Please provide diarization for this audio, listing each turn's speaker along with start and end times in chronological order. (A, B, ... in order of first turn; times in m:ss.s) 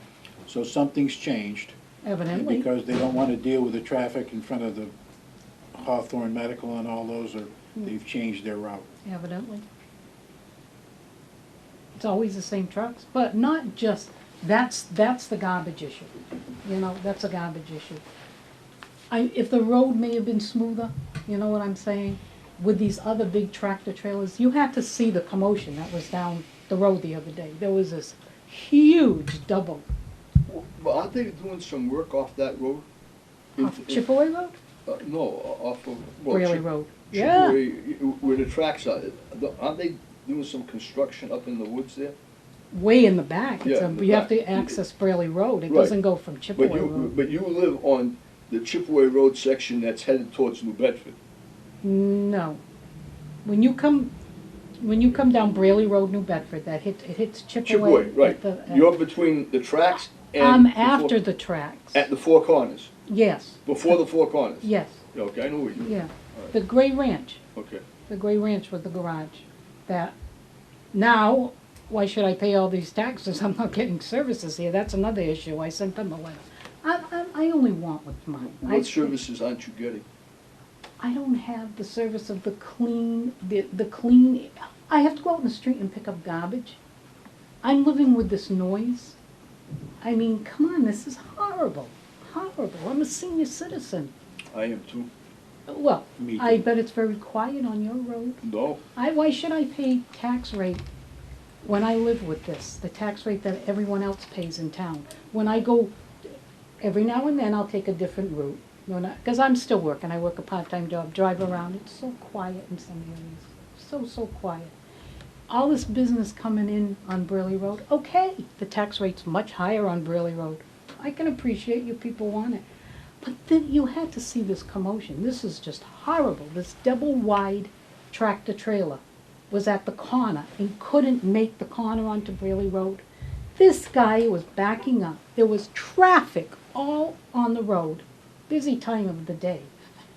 0:00.4-0:01.8 A
0:02.0-0:02.7 B
0:02.3-0:04.9 A
0:05.7-0:08.9 A
0:09.0-0:09.6 B
0:12.0-0:18.0 B
0:19.1-0:29.9 B
0:30.5-0:32.8 C
0:33.6-0:34.0 C
0:33.6-0:34.6 B
0:34.8-0:42.2 C
0:36.3-0:37.6 B
0:42.7-0:47.1 B
0:43.6-0:44.8 C
0:45.7-0:46.0 C
0:46.5-0:51.2 C
0:51.8-0:52.6 B
0:53.4-0:54.1 B
0:54.8-0:59.0 B
0:57.6-1:01.2 C
1:00.3-1:02.0 B
1:01.9-1:02.9 C
1:03.1-1:03.6 B
1:03.6-1:06.5 C
1:04.6-1:05.0 B
1:05.8-1:07.4 B
1:07.6-1:07.8 C
1:08.1-1:10.2 B
1:10.9-1:19.2 B
1:18.5-1:20.0 C
1:21.0-1:26.8 B
1:27.6-1:29.2 B
1:30.0-1:34.1 B
1:34.5-1:35.1 C
1:35.7-1:38.4 B
1:36.2-1:36.6 A
1:38.4-1:38.8 C
1:38.9-1:40.8 B
1:41.6-1:45.9 B
1:46.8-1:54.7 B
1:55.5-2:02.6 B
2:03.2-2:13.0 B
2:13.6-2:19.7 B